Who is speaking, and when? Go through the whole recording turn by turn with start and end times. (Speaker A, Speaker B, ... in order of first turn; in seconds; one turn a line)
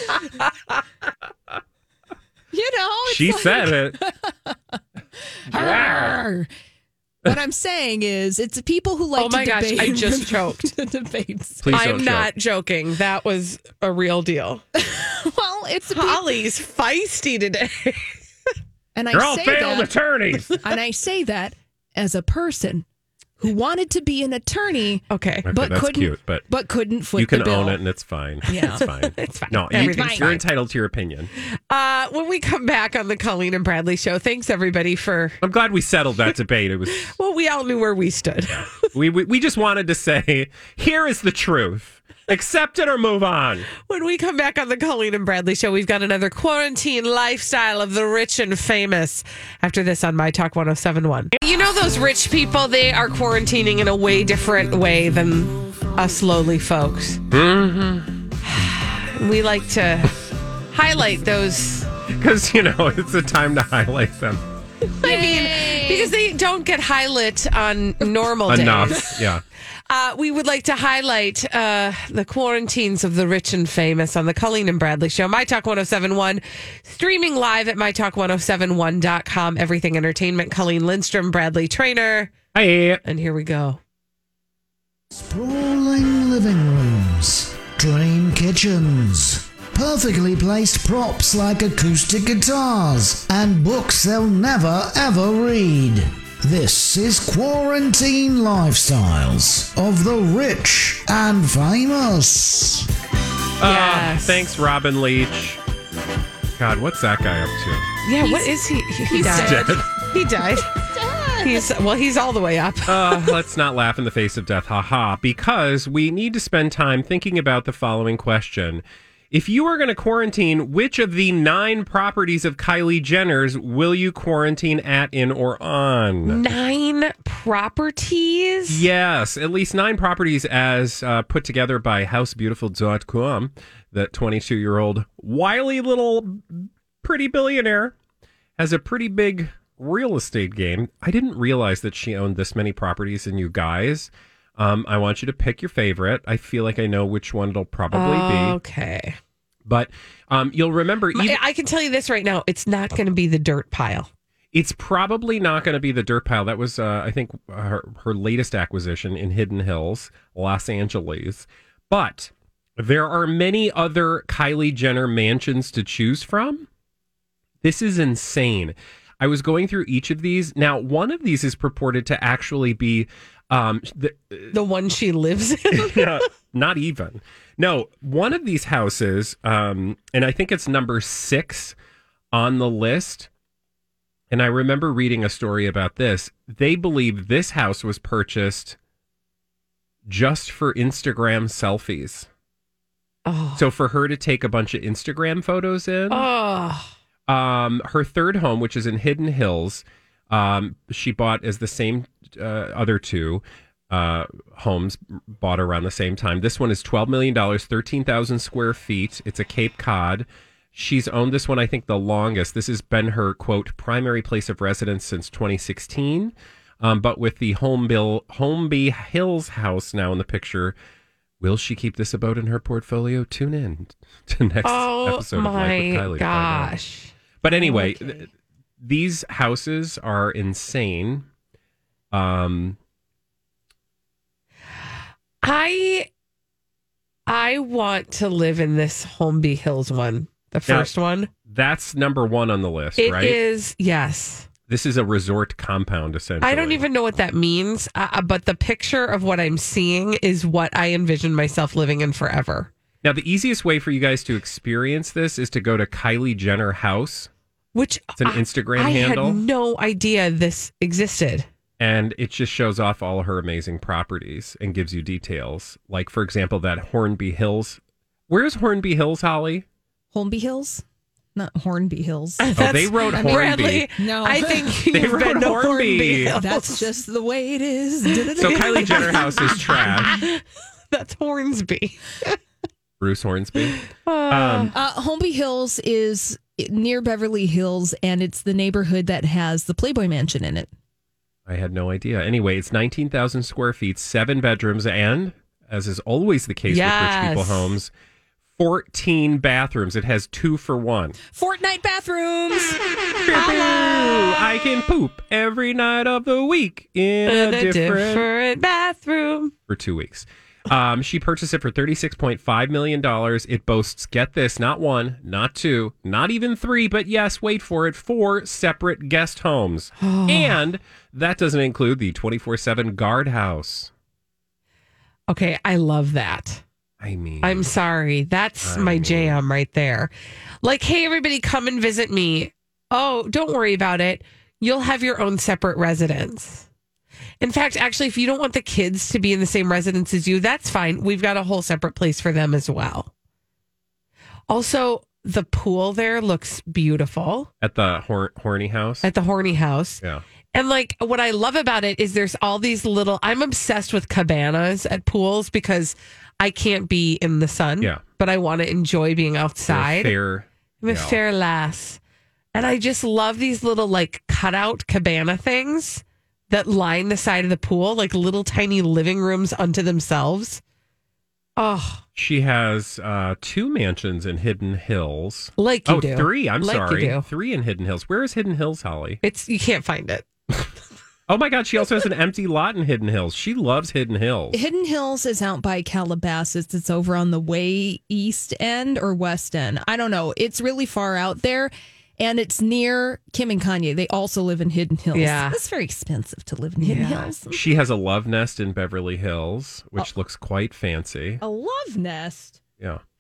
Speaker A: 0.4-0.8
Speaker B: 2.5-4.8
Speaker C: 3.0-4.0
Speaker B: 5.5-6.5
Speaker C: 5.5-6.2
Speaker B: 7.3-11.8
Speaker A: 9.2-10.7
Speaker C: 11.6-12.3
Speaker A: 11.7-14.6
Speaker B: 14.8-16.3
Speaker A: 15.9-18.2
Speaker B: 18.9-19.9
Speaker C: 19.1-20.6
Speaker B: 20.6-22.9
Speaker B: 23.4-27.8
Speaker A: 25.1-25.5
Speaker C: 25.4-26.4
Speaker C: 27.2-31.3
Speaker B: 28.5-28.9
Speaker A: 28.5-30.4
Speaker B: 29.7-30.4
Speaker A: 31.7-35.4
Speaker C: 35.4-37.1
Speaker A: 37.0-38.9
Speaker C: 38.5-43.7
Speaker A: 43.8-57.2
Speaker C: 57.3-58.3
Speaker A: 58.4-60.2
Speaker A: 60.7-61.9
Speaker C: 62.1-64.4
Speaker A: 65.0-69.3
Speaker B: 65.0-66.1
Speaker C: 68.5-69.4
Speaker A: 69.9-82.3
Speaker C: 82.5-83.0
Speaker A: 83.0-83.8
Speaker D: 85.1-102.9
Speaker C: 103.6-105.6
Speaker A: 103.6-104.4
Speaker C: 106.6-107.9
Speaker A: 108.0-110.7
Speaker B: 108.2-109.8
Speaker C: 109.2-109.9
Speaker B: 110.5-111.7
Speaker A: 111.4-113.4
Speaker C: 112.9-126.4
Speaker A: 126.3-128.8
Speaker C: 128.7-137.9
Speaker C: 138.6-148.6
Speaker A: 147.9-149.2
Speaker C: 149.7-151.4
Speaker A: 151.1-154.1
Speaker C: 154.5-166.7
Speaker C: 167.6-174.6
Speaker A: 174.5-176.3
Speaker C: 175.7-181.8
Speaker C: 182.3-183.3
Speaker C: 184.3-188.8
Speaker C: 190.1-192.3
Speaker A: 193.3-193.7
Speaker C: 193.6-196.3
Speaker A: 196.1-196.9
Speaker C: 197.3-220.8
Speaker C: 221.4-226.8
Speaker A: 224.6-228.0
Speaker C: 227.4-228.3
Speaker C: 228.8-231.3
Speaker C: 232.1-232.8
Speaker A: 235.4-236.1
Speaker A: 237.3-241.3
Speaker C: 241.5-243.4
Speaker A: 243.0-244.5
Speaker C: 244.7-246.9
Speaker A: 246.4-252.7
Speaker C: 253.0-257.3
Speaker A: 257.7-261.5
Speaker C: 258.2-259.4
Speaker C: 261.8-269.6
Speaker B: 270.1-270.8
Speaker B: 271.4-279.6
Speaker A: 272.4-276.9
Speaker C: 272.6-273.9
Speaker C: 274.9-276.4
Speaker A: 278.1-282.4
Speaker C: 278.4-280.2
Speaker C: 283.0-284.7
Speaker A: 283.7-284.7
Speaker B: 284.7-290.7
Speaker C: 291.5-297.9
Speaker A: 296.7-297.8
Speaker C: 298.6-301.2
Speaker B: 301.3-302.8
Speaker C: 303.2-308.3
Speaker B: 303.5-303.9
Speaker A: 307.3-309.5
Speaker C: 309.7-323.9
Speaker A: 320.0-320.6
Speaker A: 325.3-326.6
Speaker C: 327.0-327.7
Speaker A: 327.4-330.1
Speaker C: 328.6-329.4
Speaker A: 330.6-336.7
Speaker A: 337.4-343.1
Speaker A: 344.5-347.5
Speaker C: 347.6-349.1
Speaker A: 349.0-350.0
Speaker A: 350.5-360.2
Speaker C: 359.7-361.2
Speaker A: 360.8-362.0
Speaker A: 362.5-370.6
Speaker A: 371.6-372.0
Speaker C: 372.2-379.2
Speaker A: 375.6-377.3
Speaker A: 379.2-380.3
Speaker C: 381.3-384.6
Speaker B: 384.5-397.6
Speaker A: 395.1-395.6
Speaker A: 396.8-397.3
Speaker C: 397.5-401.4
Speaker B: 401.4-402.6